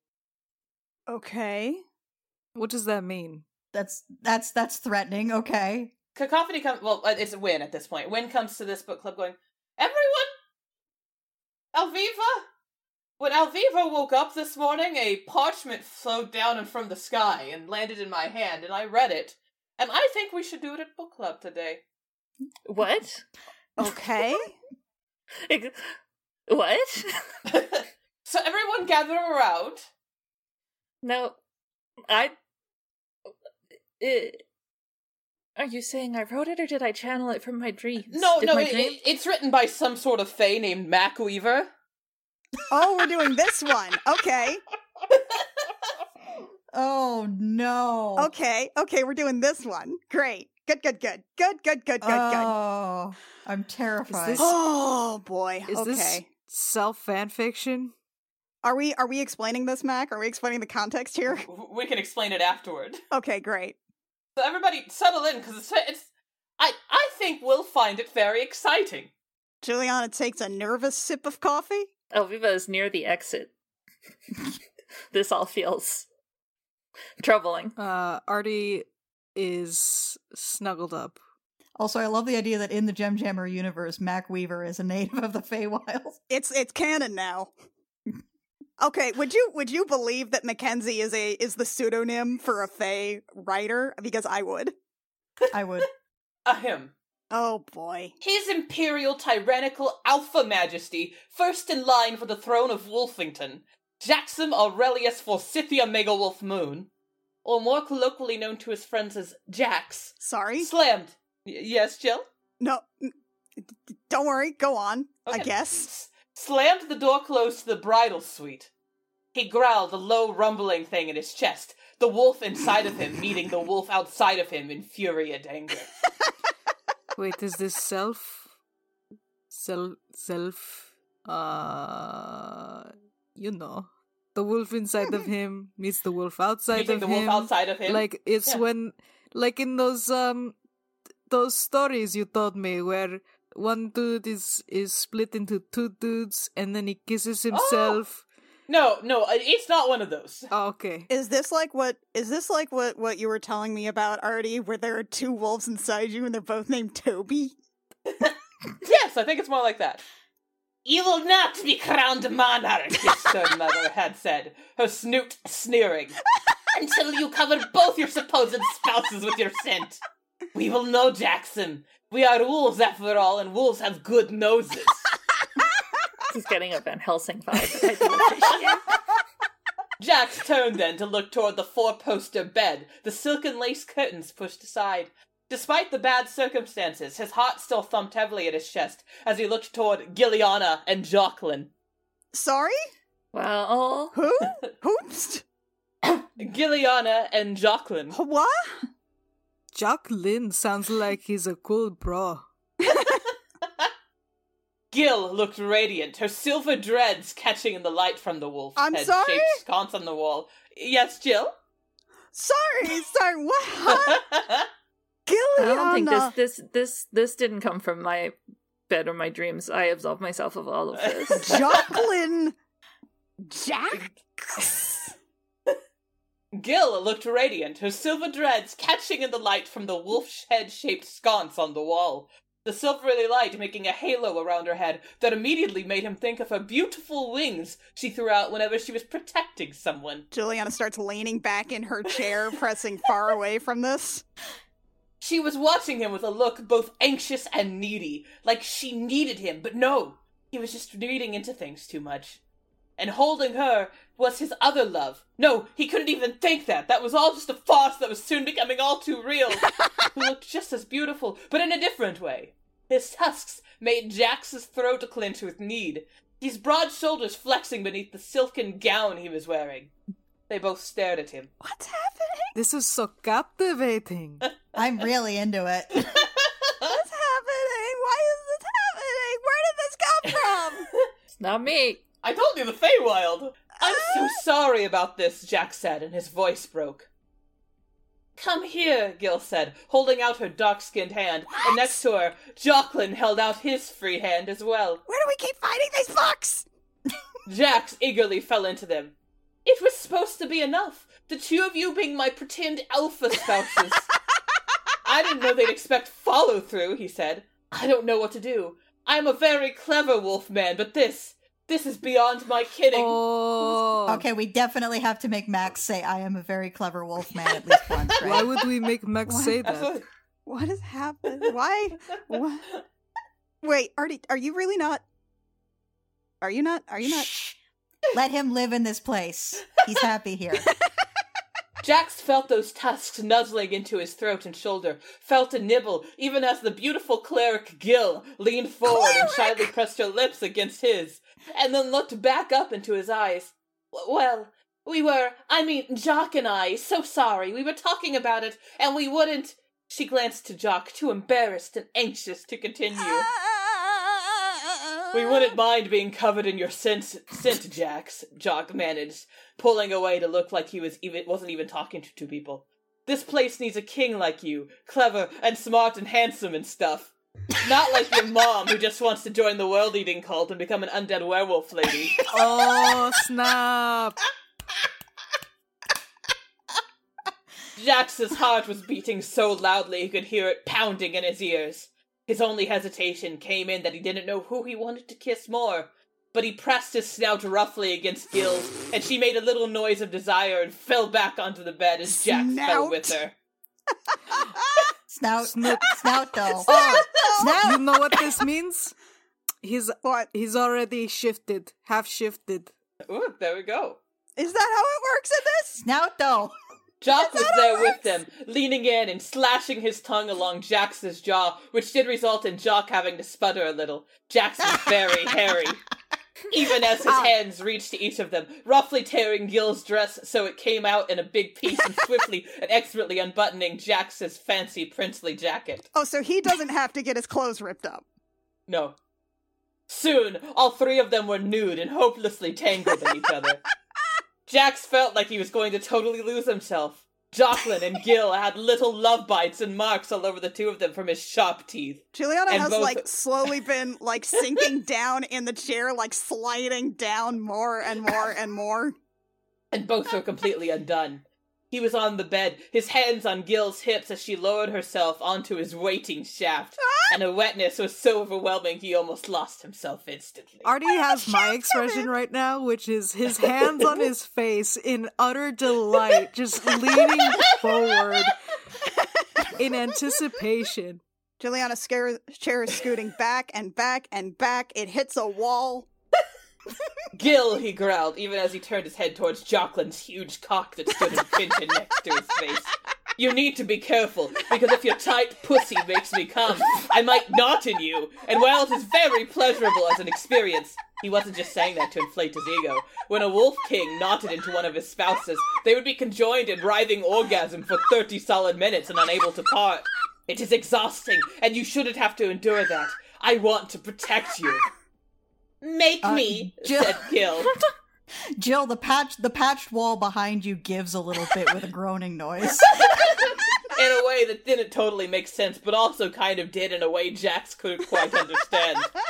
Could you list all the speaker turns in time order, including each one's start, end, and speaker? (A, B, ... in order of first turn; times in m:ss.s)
0:01.1-0:01.8 A
0:02.6-0:03.4 B
0:03.7-0:05.9 C
0:06.2-0:10.3 D
0:11.7-0:12.4 D
0:13.2-0:21.8 D
0:22.6-0:23.2 E
0:23.8-0:24.6 A
0:25.5-0:25.8 E
0:26.5-0:27.1 E
0:27.5-0:29.9 D
0:31.0-0:31.4 E
0:32.1-0:32.4 E
0:34.0-0:34.4 E
0:35.6-0:39.0 E
0:38.1-0:41.7 D
0:42.7-0:44.6 A
0:45.1-0:45.4 D
0:46.7-0:48.3 C
0:48.2-0:52.5 A
0:52.0-0:54.5 C
0:54.1-0:54.5 B
0:54.4-0:56.3 A
0:55.7-0:57.9 B
0:58.6-1:01.4 A
1:01.3-1:03.0 D
1:03.1-1:03.8 A
1:04.4-1:06.1 D
1:06.6-1:09.1 D
1:09.6-1:11.9 A
1:12.1-1:13.5 E
1:15.1-1:16.1 E
1:17.2-1:17.8 E
1:17.8-1:21.2 B
1:21.8-1:26.2 C
1:26.3-1:27.5 A
1:28.8-1:34.7 A
1:35.5-1:35.9 C
1:36.5-1:36.9 D
1:37.3-1:38.1 A
1:38.2-1:46.9 D
1:47.4-1:52.2 D
1:50.2-1:50.7 A
1:52.6-1:55.9 A
1:55.3-1:58.7 D
1:59.3-2:05.9 D
2:07.2-2:08.5 B
2:09.5-2:20.6 B
2:16.7-2:18.6 D
2:21.3-2:28.2 B
2:27.5-2:28.0 D
2:28.7-2:30.5 D
2:30.5-2:31.1 B
2:31.1-2:37.6 A
2:38.1-2:40.0 D
2:40.8-2:46.2 D
2:46.7-2:50.0 D
2:50.5-2:55.1 D
2:56.3-2:58.8 E
2:58.3-2:58.8 A
3:00.0-3:11.7 D
3:12.3-3:12.8 A
3:13.3-3:14.2 E
3:14.1-3:15.4 A
3:16.0-3:18.2 D
3:18.1-3:18.8 A
3:19.7-3:22.4 B
3:22.8-3:23.2 A
3:24.9-3:31.6 D
3:28.8-3:29.6 A
3:32.3-3:34.2 A
3:33.9-3:34.6 D
3:35.3-3:36.3 A
3:35.6-3:38.4 E
3:38.9-3:41.6 E
3:41.0-3:42.0 D
3:41.3-3:42.6 A
3:43.5-3:45.1 A
3:46.5-4:00.3 D
4:00.3-4:04.2 A
4:05.2-4:12.4 D
4:13.0-4:29.9 D
4:30.5-4:31.5 D
4:31.6-4:32.5 A
4:32.6-4:34.4 B
4:34.7-4:36.3 C
4:36.8-4:40.9 A
4:40.6-4:41.1 D
4:41.3-4:42.0 E
4:42.2-4:47.1 D
4:43.8-4:44.4 A
4:48.4-4:55.0 D
4:51.6-4:51.9 A
4:55.1-4:56.7 A
4:57.5-5:04.1 D
5:05.0-5:13.2 D
5:12.9-5:14.3 B
5:14.1-5:18.5 C
5:18.2-5:20.0 B
5:19.3-5:19.6 A
5:19.6-5:20.0 D
5:20.5-5:22.7 A
5:23.6-5:25.0 A
5:26.4-5:27.3 A
5:27.1-5:27.6 C
5:28.1-5:30.7 C
5:31.8-5:53.3 D
5:38.9-5:39.6 A
5:53.4-5:54.2 A
5:55.1-6:12.2 D
6:12.3-6:14.2 B
6:12.4-6:12.8 C
6:17.8-6:33.4 D
6:32.0-6:33.2 A
6:35.1-6:37.8 C
6:35.4-6:35.9 B
6:36.6-6:37.6 A
6:36.7-6:39.0 B
6:39.6-6:42.7 B
6:40.0-6:40.3 A
6:43.0-6:44.0 D
6:44.4-6:45.8 A
6:45.8-6:46.5 C
6:47.0-6:55.8 D
6:47.2-6:47.9 A
6:56.5-7:05.9 D
7:06.0-7:08.0 A
7:08.7-7:09.0 D
7:09.9-7:13.6 D
7:14.5-7:23.1 D
7:22.1-7:29.0 A
7:29.7-7:40.7 D
7:40.6-7:48.3 B
7:41.0-7:42.1 A
7:47.2-7:47.8 D
7:49.6-7:51.0 B
7:51.4-7:55.9 A
7:57.1-8:24.7 D
8:25.6-8:27.5 D
8:26.0-8:27.0 C
8:28.4-8:33.4 C
8:33.7-8:38.9 D